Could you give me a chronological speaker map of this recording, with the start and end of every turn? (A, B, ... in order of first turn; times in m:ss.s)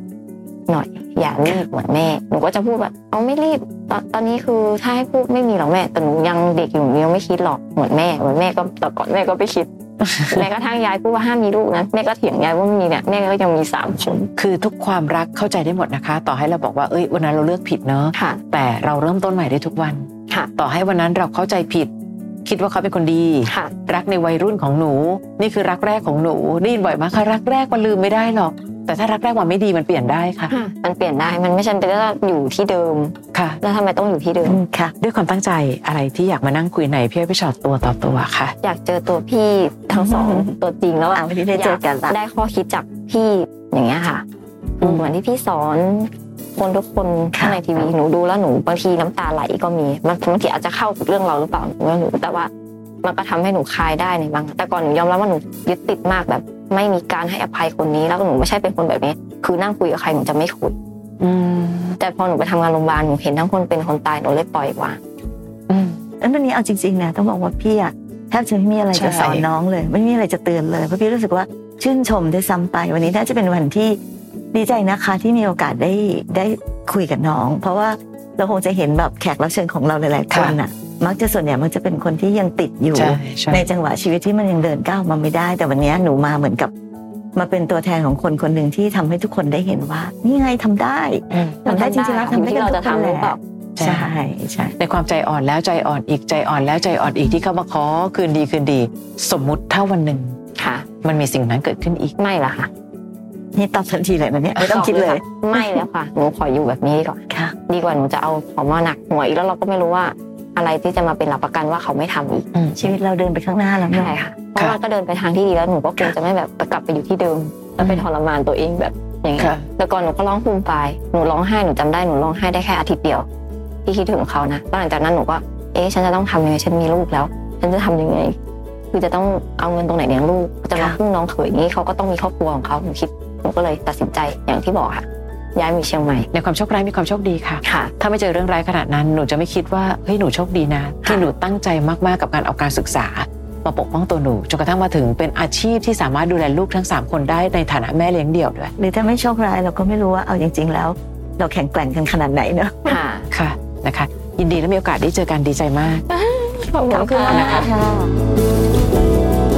0:00.7-0:09.7 A
0:10.0-0:10.5 B
0:10.2-0:14.3 A
0:14.4-0:21.9 B
0:18.1-0:18.4 A
0:22.4-0:30.5 B
0:23.4-0:23.7 A
0:30.5-0:34.6 A
0:33.3-0:33.6 B
0:34.4-0:34.9 C
0:35.0-0:38.5 B
0:38.6-0:44.2 A
0:39.9-0:40.5 C
0:41.1-0:42.2 C
0:44.8-0:45.1 B
0:44.8-0:52.5 A
0:47.3-0:47.6 C
0:53.0-1:00.8 A
1:01.2-1:02.0 B
1:02.0-1:05.0 A
1:05.7-1:06.0 B
1:06.2-1:14.0 C
1:08.9-1:09.4 B
1:14.5-1:26.7 C
1:20.3-1:20.6 B
1:22.9-1:23.7 B
1:27.3-1:34.8 C
1:31.3-1:31.6 B
1:31.6-1:33.4 A
1:33.8-1:34.1 B
1:34.8-1:40.3 B
1:40.5-1:40.9 A
1:41.0-1:42.1 B
1:42.2-1:42.7 A
1:43.5-1:45.8 C
1:44.6-1:52.4 A
1:47.3-1:47.5 C
1:52.5-1:52.9 B
1:52.8-1:54.1 C
1:53.9-2:03.2 A
1:57.8-1:58.0 B
1:59.4-1:59.6 B
2:03.8-2:08.4 A
2:08.9-2:16.3 A
2:16.3-2:28.7 B
2:17.6-2:17.9 A
2:28.8-2:33.0 C
2:32.8-2:33.2 A
2:33.3-2:36.0 B
2:36.1-2:37.7 A
2:36.9-2:38.1 C
2:37.2-2:37.7 B